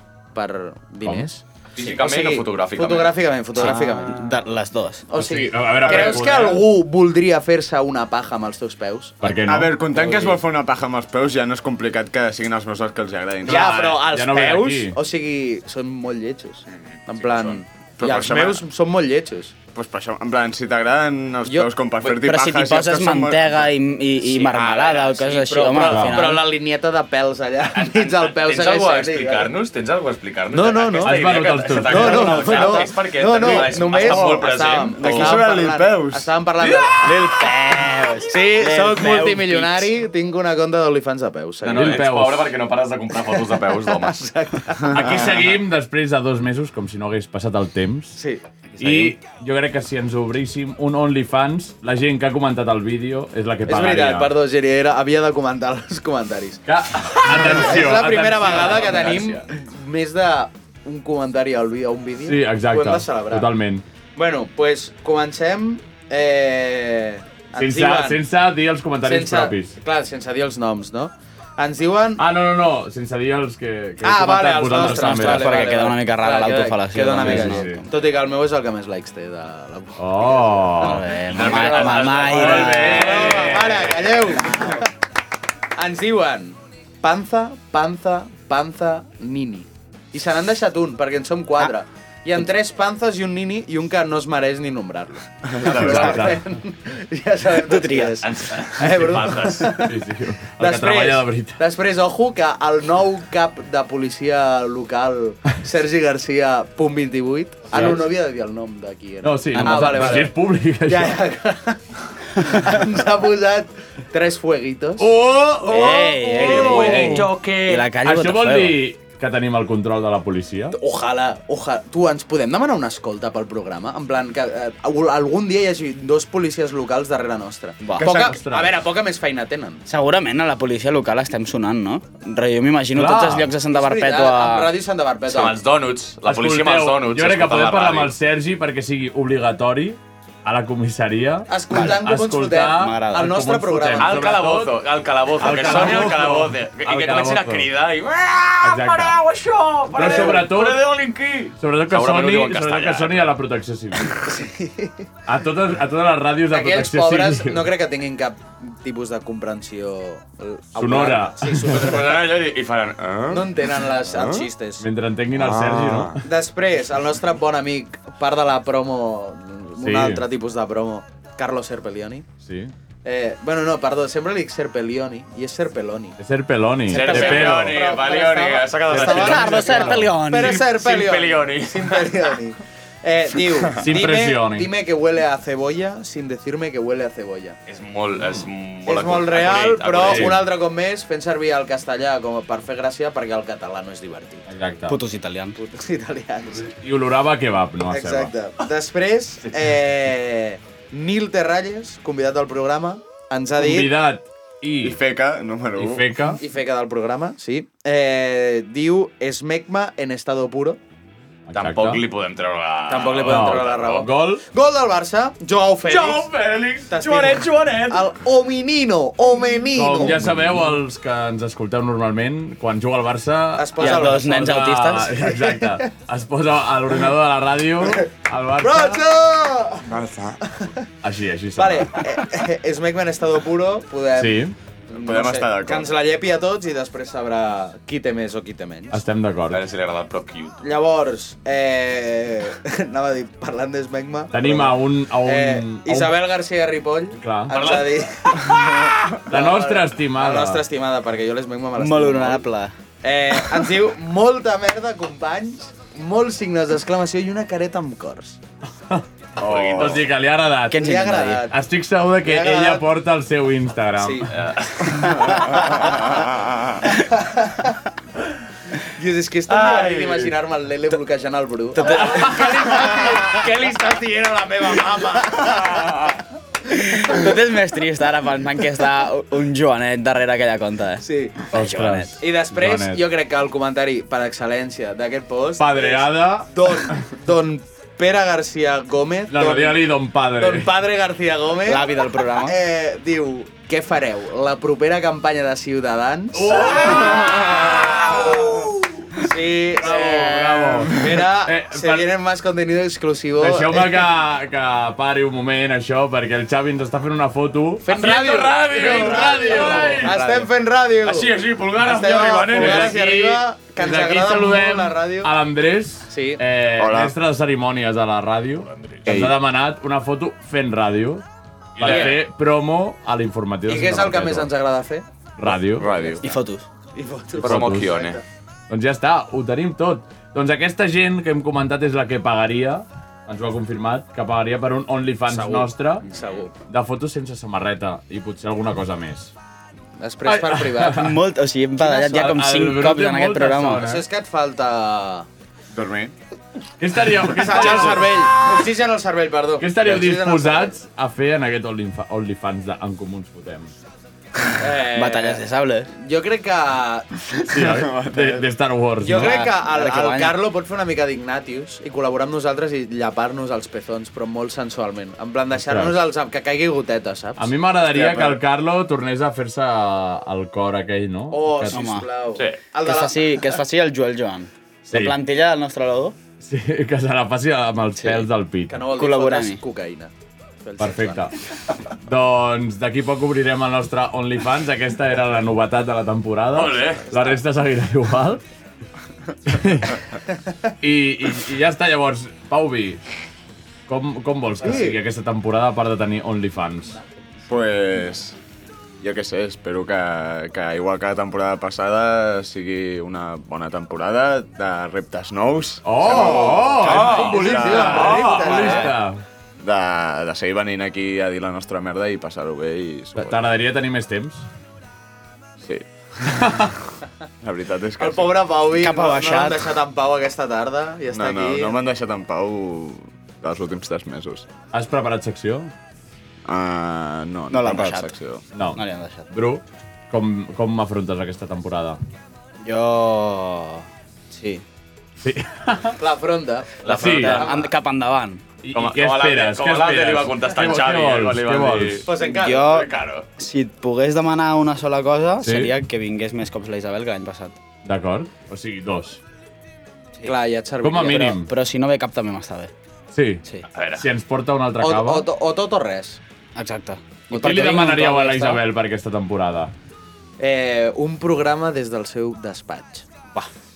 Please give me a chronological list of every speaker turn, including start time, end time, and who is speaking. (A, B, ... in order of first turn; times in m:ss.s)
0:00.3-0:04.3 A
0:01.0-0:01.3 B
0:01.7-0:03.2 C
0:03.6-0:05.1 D
0:05.1-0:09.2 A
0:05.1-0:06.7 B
0:09.2-0:10.4 B
0:09.4-0:13.8 E
0:13.4-0:19.5 A
0:13.5-0:15.0 B
0:16.7-0:17.6 C
0:18.0-0:18.6 E
0:19.7-0:23.7 E
0:22.1-0:26.5 D
0:24.3-0:29.5 A
0:25.8-0:26.2 B
0:27.7-0:35.4 C
0:30.5-0:37.2 A
0:31.0-0:32.8 B
0:33.2-0:36.3 E
0:37.0-0:39.9 D
0:38.3-0:42.0 A
0:41.6-0:44.2 C
0:41.7-0:42.5 B
0:43.7-0:45.4 A
0:44.9-0:48.2 B
0:48.2-0:48.4 A
0:48.7-0:49.2 D
0:48.8-0:54.4 B
0:53.7-1:03.5 A
0:56.7-0:59.4 B
1:02.2-1:03.8 B
1:04.2-1:08.2 A
1:07.6-1:09.8 B
1:09.0-1:12.2 A
1:12.2-1:15.6 B
1:14.0-1:22.3 A
1:14.7-1:17.8 D
1:17.1-1:17.9 B
1:20.0-1:21.0 B
1:20.8-1:23.4 D
1:21.2-1:24.3 C
1:22.0-1:24.0 B
1:22.8-1:24.9 A
1:25.8-1:40.0 A
1:35.6-1:36.4 C
1:35.7-1:36.4 B
1:37.6-1:38.2 D
1:38.2-1:39.9 C
1:39.7-1:41.6 B
1:40.6-1:51.8 A
1:47.7-1:48.1 B
1:49.2-1:51.2 B
1:49.5-1:50.3 D
1:52.4-1:57.4 A
1:55.0-1:57.4 B
1:55.7-1:58.8 D
1:56.4-1:57.8 C
1:57.9-2:00.8 B
2:00.7-2:09.8 A
2:08.0-2:08.4 E
2:08.0-2:08.8 B
2:09.9-2:14.7 D
2:12.9-2:13.5 B
2:13.6-2:15.6 A
2:15.3-2:18.1 C
2:16.2-2:24.8 B
2:21.5-2:24.4 A
2:22.7-2:23.4 D
2:24.0-2:33.3 C
2:25.4-2:27.7 B
2:25.4-2:26.1 A
2:28.6-2:29.2 B
2:29.9-2:30.8 B
2:30.0-2:30.4 A
2:31.6-2:34.2 B
2:34.2-2:35.1 A
2:35.3-2:37.7 B
2:36.5-2:42.3 A
2:40.8-2:41.7 B
2:41.6-2:44.5 C
2:43.3-2:44.9 A
2:44.8-2:46.2 B
2:45.4-2:46.2 C
2:46.2-2:52.3 A
2:49.8-2:50.2 B
2:52.4-2:52.7 B
2:53.0-2:56.2 A
2:56.2-2:57.8 B
2:56.9-3:02.3 C
2:56.9-3:07.6 A
2:58.9-3:00.1 B
2:59.0-3:00.6 D
3:03.8-3:04.7 B
3:07.7-3:10.4 C
3:08.9-3:14.5 A
3:10.0-3:10.4 B
3:14.5-3:15.0 B
3:14.9-3:15.6 D
3:15.6-3:16.7 A
3:16.7-3:18.3 B
3:17.9-3:24.0 A
3:23.6-3:25.0 B
3:24.8-3:26.1 E
3:25.8-3:26.4 B
3:26.4-3:30.8 A
3:31.5-3:32.0 B
3:31.6-3:34.0 C
3:32.9-3:36.3 A
3:33.2-3:34.4 B
3:35.8-3:38.1 C
3:36.9-3:40.4 A
3:39.7-3:49.0 B
3:43.6-3:44.5 A
3:43.8-3:45.2 D
3:45.4-3:45.7 A
3:48.6-3:49.9 A
3:49.9-3:50.4 E
3:50.6-3:50.9 A
3:51.0-3:52.1 B
3:51.6-3:59.0 A
3:54.2-3:54.6 B
3:54.9-3:55.9 E
3:58.9-3:59.6 B
3:59.5-4:00.6 C
4:00.6-4:12.5 A
4:04.3-4:06.2 B
4:07.2-4:07.7 B
4:07.5-4:08.8 C
4:09.3-4:10.6 B
4:11.8-4:12.7 D
4:13.0-4:18.4 A
4:18.9-4:21.0 B
4:19.4-4:20.0 C
4:19.4-4:20.0 E
4:20.7-4:21.4 D
4:20.8-4:21.6 A
4:21.5-4:24.3 B
4:22.2-4:22.8 A
4:24.0-4:24.3 A
4:24.3-4:25.4 C
4:25.2-4:26.2 A
4:26.3-4:26.8 E
4:26.9-4:27.8 A
4:28.8-4:36.2 A
4:29.5-4:30.4 C
4:31.8-4:32.4 D
4:32.0-4:32.8 B
4:36.7-4:42.1 D
4:41.0-4:41.5 A
4:41.5-4:43.0 B
4:42.2-5:04.1 A
4:45.6-4:46.8 B
4:49.3-4:50.7 B
4:51.7-4:52.6 D
4:56.3-4:57.6 B
4:58.2-4:58.7 B
4:59.7-5:02.1 B
5:03.4-5:10.4 B
5:07.8-5:15.3 A
5:08.0-5:10.1 C
5:11.0-5:13.0 C
5:12.5-5:21.2 B
5:16.1-5:16.4 A
5:16.8-5:17.2 E
5:18.7-5:19.1 C
5:19.1-5:19.4 E
5:21.8-5:24.5 B
5:21.8-5:22.2 C
5:21.8-5:22.2 A
5:23.7-5:25.1 A
5:25.4-5:25.9 B
5:25.8-5:26.2 C
5:25.8-5:26.2 A
5:26.2-5:26.7 D
5:26.9-5:28.2 A
5:27.4-5:28.2 C
5:27.4-5:28.0 B
5:28.7-5:36.1 B
5:35.3-5:36.6 A
5:36.7-5:39.3 B
5:40.0-5:41.1 A
5:40.2-5:41.2 B
5:40.9-5:43.9 D
5:41.8-5:42.3 A
5:42.0-5:44.1 B
5:43.8-5:45.3 A
5:45.7-5:46.1 E
5:46.8-5:48.5 B
5:47.3-5:50.8 A
5:49.6-5:53.7 B
5:54.6-5:55.4 A
5:54.9-5:55.9 D
5:56.0-5:57.5 A
5:57.5-5:59.4 B
5:57.5-5:58.5 E
5:59.0-6:07.5 A
5:59.1-6:00.4 D
6:05.5-6:06.0 B
6:07.4-6:11.9 B
6:07.8-6:08.4 E
6:11.3-6:13.6 A
6:11.7-6:12.1 D
6:12.8-6:16.2 D
6:14.9-6:15.2 B
6:16.4-6:18.8 B
6:18.0-6:18.3 D
6:18.7-6:21.3 A
6:19.0-6:19.6 D
6:20.8-6:21.3 B
6:22.0-6:28.4 B
6:26.6-6:27.2 C
6:29.5-6:30.0 B
6:30.8-6:33.0 B
6:33.9-6:37.0 B
6:34.6-6:35.0 A
6:37.5-6:38.4 E
6:39.0-6:48.4 E
6:45.8-6:49.2 B
6:46.1-6:49.0 A
6:46.8-6:48.8 C
6:49.6-6:53.4 E
6:53.2-6:54.5 B
6:55.6-6:56.7 E
6:56.3-6:56.8 B
6:57.4-6:58.4 E
6:58.0-7:01.8 A
6:58.7-6:59.6 D
7:01.1-7:04.5 E
7:04.7-7:05.7 B
7:06.4-7:08.4 E
7:07.5-7:08.2 D
7:08.5-7:12.0 B
7:08.8-7:09.3 D
7:12.6-7:14.6 D
7:15.2-7:16.0 B
7:16.0-7:17.7 A
7:16.8-7:17.3 C
7:16.8-7:17.4 B
7:16.8-7:18.4 D
7:18.6-7:22.1 B
7:18.7-7:23.3 C
7:22.1-7:22.7 A
7:22.2-7:27.6 D
7:25.4-7:25.7 B
7:27.8-7:29.2 B
7:30.2-7:31.4 A
7:30.8-7:31.5 B
7:31.0-7:32.7 D
7:33.1-7:33.4 B
7:33.7-7:34.1 C
7:34.0-7:35.3 B
7:34.8-7:36.2 A
7:36.6-7:38.6 D
7:37.3-7:39.7 B
7:37.3-7:37.7 A
7:40.4-7:43.4 A